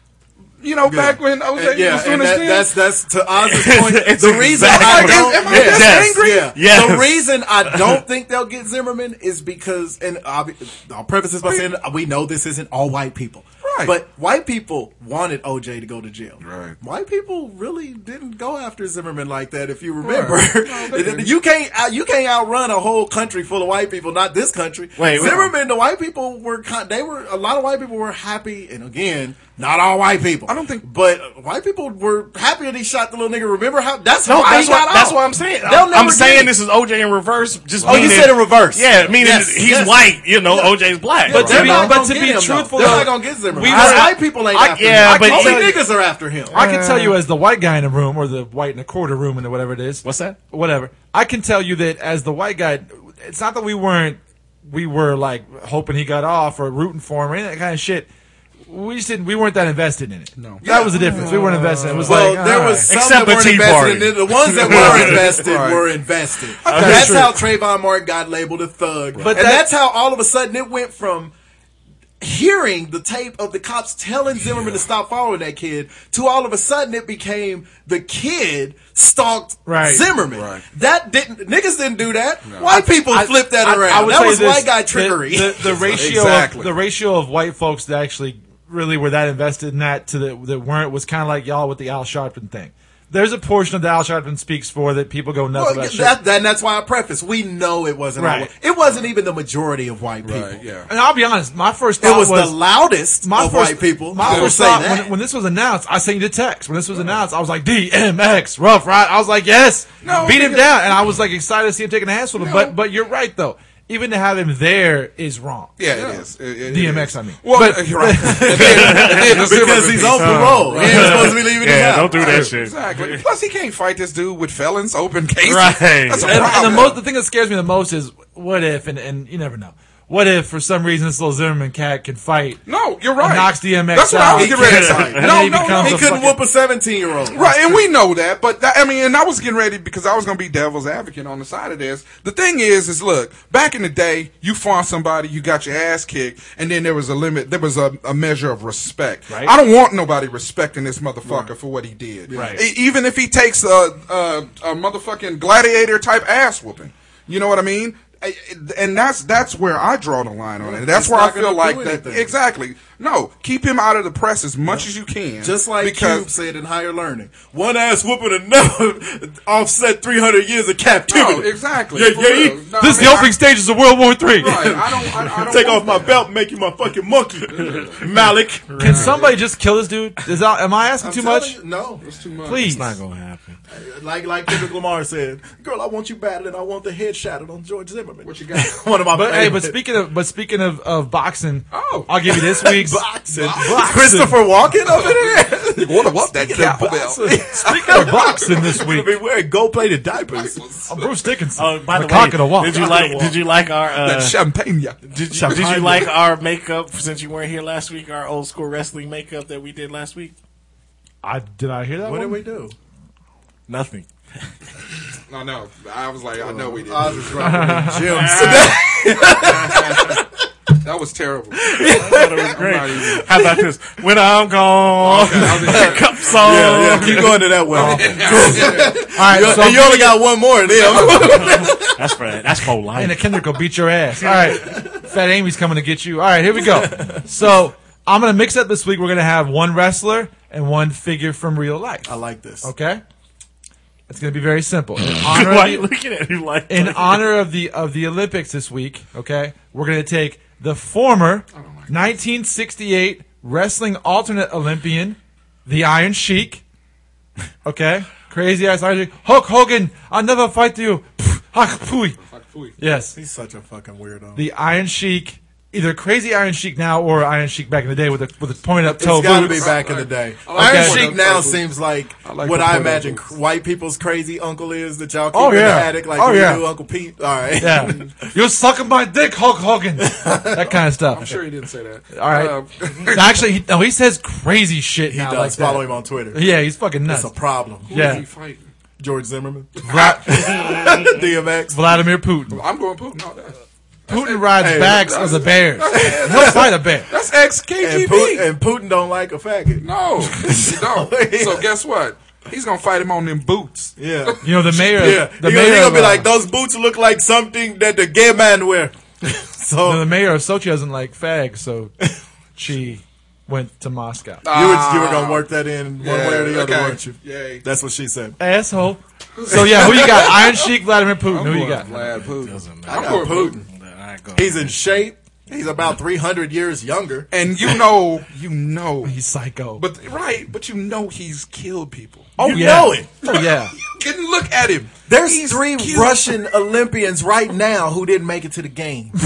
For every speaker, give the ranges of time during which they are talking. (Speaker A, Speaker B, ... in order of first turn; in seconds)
Speaker A: 0.6-2.7, 4.6-6.5, 11.4-11.7, 13.6-13.9, 16.4-16.8, 20.0-21.3, 30.5-30.8, 37.8-38.3, 60.4-61.5, 64.6-65.9, 66.6-67.3, 80.3-80.6, 82.5-82.8, 85.9-86.7, 100.2-100.9, 104.2-104.6, 110.0-111.0, 112.4-112.8, 115.8-121.4, 122.1-127.0, 132.7-136.2, 137.3-166.3, 171.1-173.3, 174.4-176.2, 177.5-178.1, 178.9-179.2, 182.0-182.7, 188.2-188.8, 191.7-192.1, 193.3-194.1, 194.8-198.7, 200.3-201.2, 202.8-203.1, 204.0-205.0, 205.5-205.9, 215.3-220.2, 220.8-223.2, 225.0-229.8, 230.7-231.7, 251.5-251.9, 262.2-262.7, 268.9-271.7, 272.2-273.3, 281.1-283.5, 287.9-288.7, 289.8-290.9, 292.5-298.5, 299.8-304.4, 314.4-315.4, 316.0-317.6, 319.4-320.6, 321.2-323.6, 327.3-329.1, 329.8-332.7, 333.2-336.3
Speaker B: 0.8-36.5, 37.8-46.6, 60.6-71.3, 72.2-86.1, 95.5-100.6, 102.0-105.1, 115.9-116.2, 118.2-122.5, 134.3-137.5, 151.2-151.5, 152.3-152.6, 160.6-162.3, 165.4-173.2, 175.4-179.3, 181.0-182.0, 183.7-189.8, 192.3-200.6, 202.6-203.4, 205.3-206.1, 212.0-212.7, 216.3-220.3, 221.6-223.7, 225.3-232.2, 234.5-234.9, 236.5-237.2, 242.1-242.7, 263.1-264.4, 268.9-278.1, 280.0-280.8, 285.1-286.5, 287.0-288.2, 289.0-291.8, 294.6-296.8, 297.8-301.7, 304.0-310.1, 314.5-318.4, 319.7-320.0, 322.9-323.6, 324.3-327.3, 332.4-333.1, 335.1-339.1
Speaker C: 3.4-8.0, 25.0-25.5, 34.2-41.9, 43.6-45.8, 46.5-47.2, 50.0-50.4, 61.1-62.2, 62.9-65.4, 66.7-67.1, 118.5-123.2, 125.4-126.8, 134.5-135.3, 178.0-179.2, 182.6-183.6, 201.6-204.4, 205.1-210.3, 213.7-214.1, 221.8-227.6, 231.0-233.4, 245.1-247.3, 321.9-325.0
Speaker D: 41.3-45.7, 46.5-58.1, 58.7-62.9, 66.7-67.3, 69.2-69.7, 79.7-80.1, 83.0-96.2, 98.2-98.5, 100.9-102.6, 103.2-115.8, 116.7-119.1, 120.8-121.2, 122.2-122.5, 126.2-132.6, 133.2-136.4, 152.3-152.6, 172.8-174.8, 178.8-181.6, 182.4-183.0, 189.1-194.4, 197.6-199.2, 200.9-202.8, 211.2-212.4, 217.4-218.5, 227.7-230.2, 233.0-243.0, 244.1-245.9, 246.7-256.6, 257.6-262.2, 262.8-263.1, 264.4-269.8, 270.5-271.1, 275.3-276.6, 277.6-281.3, 282.1-282.5, 283.1-287.3, 287.9-288.2, 289.8-290.4, 291.7-292.6, 294.1-297.1, 304.4-306.3, 309.8-311.9, 312.6-314.4, 318.4-322.2, 329.0-329.8, 332.4-333.7